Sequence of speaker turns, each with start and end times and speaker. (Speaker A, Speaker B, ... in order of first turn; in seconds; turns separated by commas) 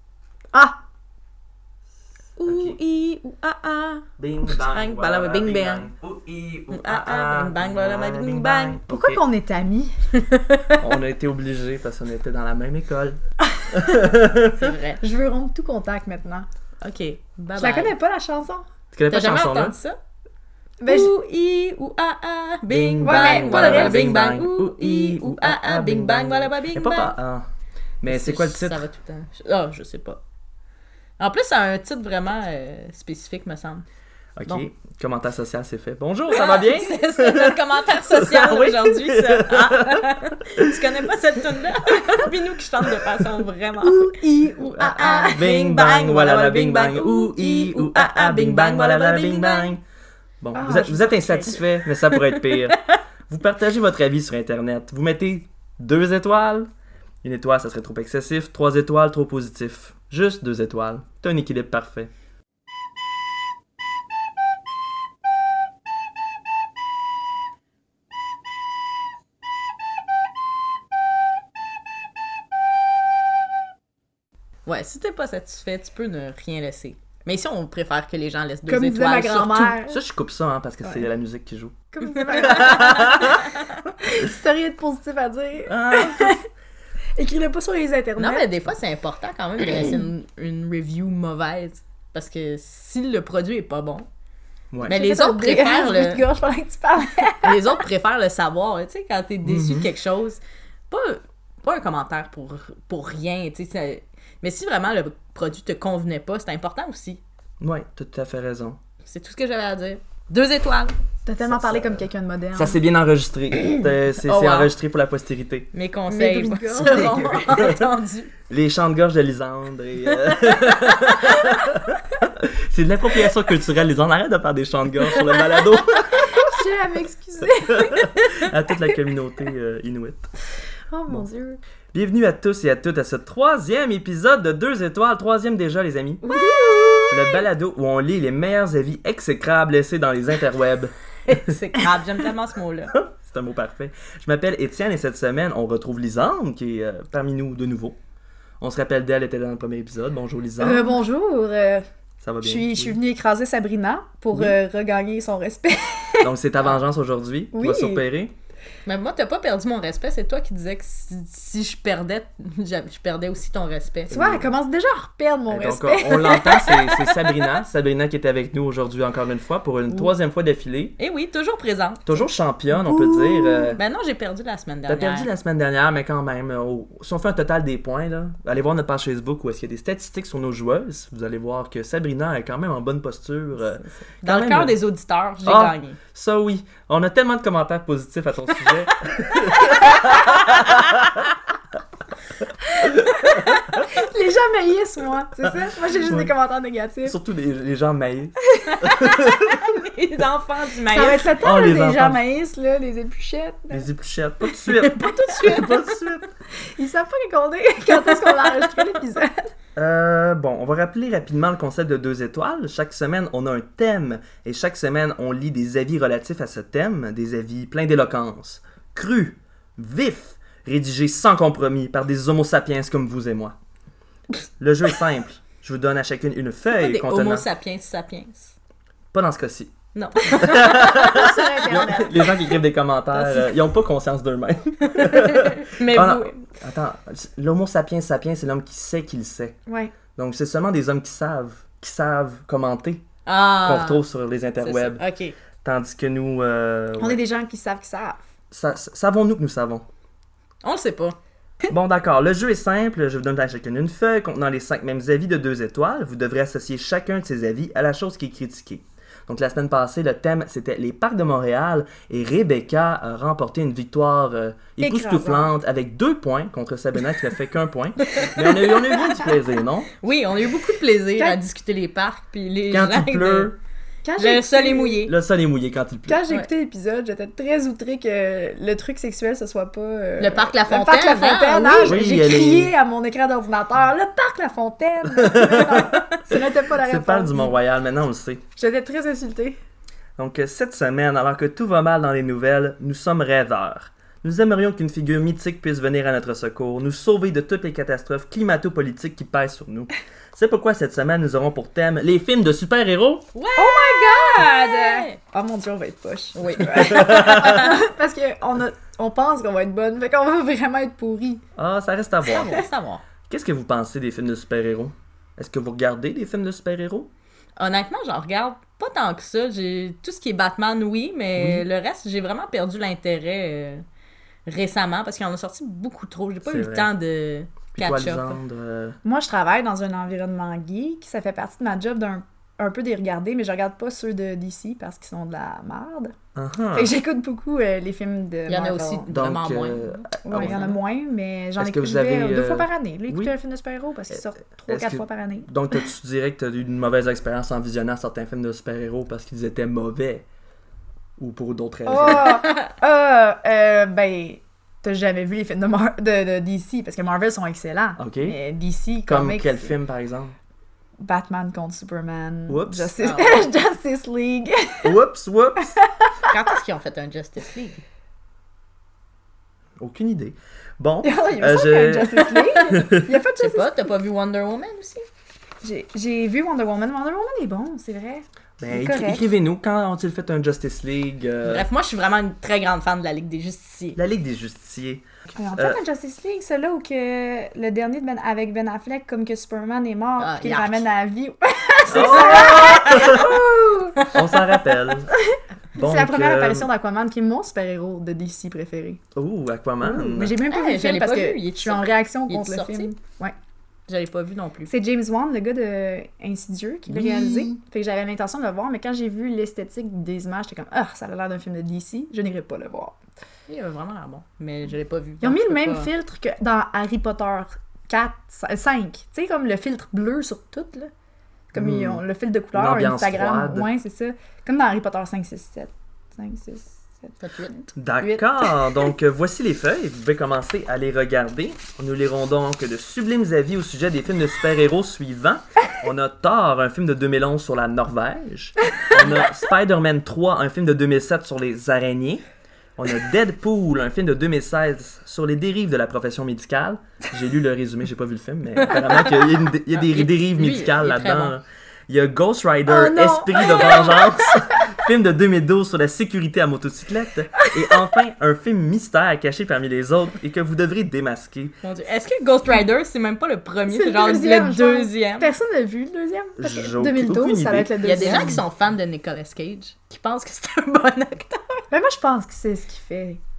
Speaker A: 0.5-0.8, Speaker B: 2.4-5.9, Speaker C: 2.4-2.8, Speaker C: 4.2-9.2, Speaker B: 6.7-8.8, Speaker A: 8.9-10.0, Speaker B: 10.1-10.8, Speaker C: 10.8-13.2, Speaker C: 13.7-14.7, Speaker B: 14.6-15.0, Speaker A: 15.0-16.5, Speaker B: 16.8-17.9, Speaker A: 17.6-18.7, Speaker C: 18.9-19.8, Speaker B: 19.1-20.0, Speaker A: 20.8-21.1, Speaker B: 20.9-27.1, Speaker C: 22.7-27.5, Speaker A: 23.0-24.1, Speaker C: 28.0-28.9, Speaker B: 28.1-30.2, Speaker B: 31.2-33.9, Speaker C: 34.4-40.9, Speaker B: 36.3-49.7, Speaker A: 43.8-45.4, Speaker C: 45.3-49.8, Speaker C: 50.4-52.8, Speaker A: 50.5-51.7, Speaker B: 52.1-53.0, Speaker C: 53.3-56.7, Speaker C: 57.2-62.1, Speaker B: 74.7-79.8, Speaker A: 78.7-80.0, Speaker C: 79.9-83.5, Speaker A: 81.9-83.4, Speaker B: 82.0-83.7, Speaker A: 84.0-86.4, Speaker C: 85.7-86.4, Speaker A: 87.2-88.6, Speaker B: 88.2-94.1, Speaker C: 94.7-95.0, Speaker B: 94.9-96.2, Speaker A: 94.9-97.8, Speaker B: 97.4-107.2, Speaker C: 99.5-99.9, Speaker C: 107.6-108.8, Speaker B: 109.0-110.9, Speaker A: 111.3-112.8, Speaker C: 111.4-115.7, Speaker B: 114.2-114.7, Speaker B: 115.7-118.3, Speaker A: 116.1-117.6, Speaker C: 116.9-117.9, Speaker C: 118.5-126.5, Speaker A: 126.3-128.5, Speaker C: 127.7-130.3, Speaker A: 130.9-131.6, Speaker C: 131.9-136.3, Speaker A: 136.2-137.5, Speaker C: 137.1-141.6, Speaker B: 141.3-142.9, Speaker C: 142.9-148.0, Speaker C: 148.6-151.0, Speaker A: 150.6-151.9, Speaker C: 152.2-153.0, Speaker A: 152.4-156.3, Speaker C: 156.2-158.3, Speaker A: 157.5-158.0, Speaker B: 158.9-164.2, Speaker C: 164.1-164.5, Speaker A: 164.1-167.4, Speaker C: 165.5-171.0, Speaker B: 171.0-172.3, Speaker C: 172.1-173.8, Speaker A: 172.7-173.8, Speaker B: 173.8-175.3, Speaker C: 174.9-184.8, Speaker B: 184.2-186.0, Speaker C: 185.4-191.3, Speaker B: 190.3-190.7, Speaker A: 192.7-197.2, Speaker C: 192.9-193.8, Speaker C: 195.9-196.3, Speaker C: 197.1-199.6, Speaker B: 198.7-201.3, Speaker A: 200.9-203.9, Speaker C: 201.3-202.2, Speaker C: 203.7-206.3, Speaker B: 204.7-205.8, Speaker A: 204.8-205.7, Speaker A: 206.8-209.5, Speaker B: 208.0-208.5, Speaker C: 209.8-223.6, Speaker C: 224.6-227.5, Speaker B: 226.7-228.5, Speaker C: 229.1-239.6, Speaker B: 229.9-231.5, Speaker A: 230.8-232.4, Speaker B: 234.9-236.5, Speaker A: 239.7-239.9, Speaker C: 240.1-243.0, Speaker B: 243.3-244.0, Speaker C: 243.6-245.0, Speaker B: 244.6-245.3, Speaker C: 245.6-247.2, Speaker A: 247.0-248.2, Speaker C: 248.5-249.9, Speaker B: 250.6-251.2, Speaker C: 251.7-269.9, Speaker A: 264.8-265.5, Speaker B: 270.0-273.5, Speaker C: 272.7-273.6, Speaker A: 274.0-275.0, Speaker B: 274.2-275.1, Speaker C: 275.1-276.2, Speaker A: 276.1-287.6, Speaker B: 280.2-282.0, Speaker C: 281.8-282.8, Speaker C: 285.1-288.4, Speaker A: 288.6-289.6, Speaker C: 290.2-303.3, Speaker B: 303.4-305.2, Speaker A: 303.6-311.4, Speaker B: 306.4-307.8, Speaker C: 306.7-307.7, Speaker C: 311.6-312.6, Speaker B: 312.2-313.0, Speaker A: 312.4-312.7, Speaker C: 313.3-317.1, Speaker B: 317.6-323.9, Speaker C: 321.4-321.6, Speaker B: 324.5-328.4, Speaker C: 326.4-326.9, Speaker C: 327.7-329.0, Speaker A: 329.0-336.1, Speaker C: 336.4-336.9, Speaker A: 336.8-339.1, Speaker B: 338.5-340.8, Speaker C: 339.1-340.7, Speaker A: 340.2-345.5, Speaker C: 341.6-343.3, Speaker C: 344.1-350.3, Speaker C: 351.2-352.4, Speaker A: 351.9-359.8, Speaker C: 358.0-358.4, Speaker C: 359.1-360.4, Speaker A: 361.0-365.0, Speaker C: 362.5-362.9, Speaker B: 363.0-363.5, Speaker C: 364.8-365.7, Speaker A: 365.6-366.6, Speaker B: 366.3-367.8, Speaker C: 369.8-373.1, Speaker A: 371.0-373.7, Speaker B: 372.2-375.1, Speaker A: 375.6-379.3, Speaker C: 378.6-381.7, Speaker B: 381.4-384.0, Speaker C: 384.0-385.8, Speaker A: 385.4-394.1, Speaker B: 390.2-390.8, Speaker C: 391.9-393.4, Speaker B: 392.0-392.7, Speaker C: 394.1-395.1, Speaker A: 395.1-399.0, Speaker C: 395.7-396.7, Speaker C: 399.1-400.4, Speaker A: 399.8-403.3, Speaker B: 400.5-402.9, Speaker B: 403.9-404.7, Speaker A: 404.7-413.0, Speaker C: 406.9-407.5, Speaker B: 413.5-415.9, Speaker A: 415.2-420.9, Speaker A: 421.5-428.7, Speaker C: 421.5-422.0, Speaker C: 422.5-423.7, Speaker B: 427.2-427.7, Speaker C: 427.8-442.2, Speaker C: 442.8-461.6, Speaker B: 448.6-449.2, Speaker B: 449.7-451.3, Speaker A: 452.7-454.4, Speaker B: 461.6-465.3, Speaker A: 463.7-468.4, Speaker C: 466.4-468.4, Speaker B: 467.8-471.6, Speaker A: 471.7-473.2